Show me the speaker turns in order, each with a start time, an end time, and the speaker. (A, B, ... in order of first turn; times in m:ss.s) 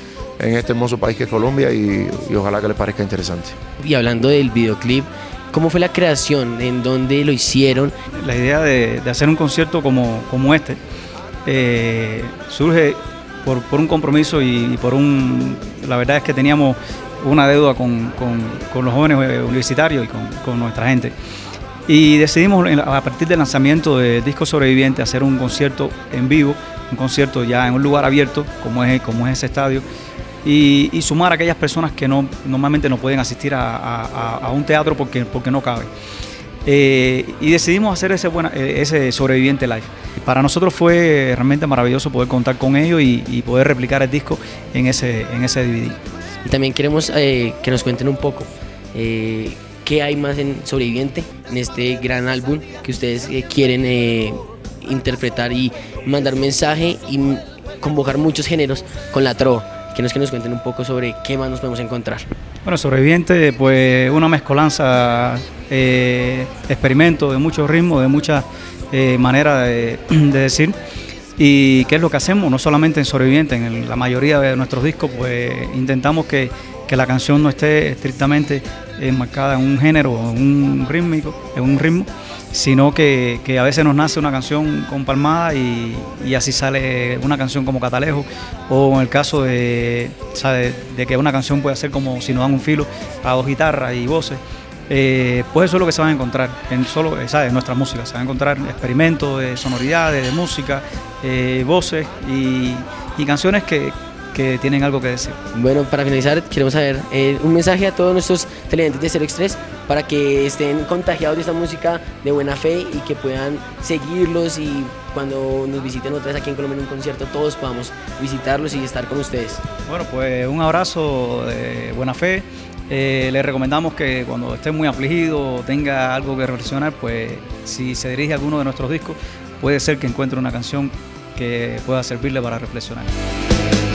0:00.4-0:03.6 A
0:03.8-0:07.9 B
0:08.2-0:10.8 C
0:11.4-0:21.1 C
0:21.9-0:29.8 C
0:30.4-0:35.9 C
0:36.6-0:46.0 C
0:46.4-1:02.3 B
1:02.6-1:10.8 C
1:11.4-1:45.4 C
1:45.5-1:59.6 B
1:59.8-2:13.1 C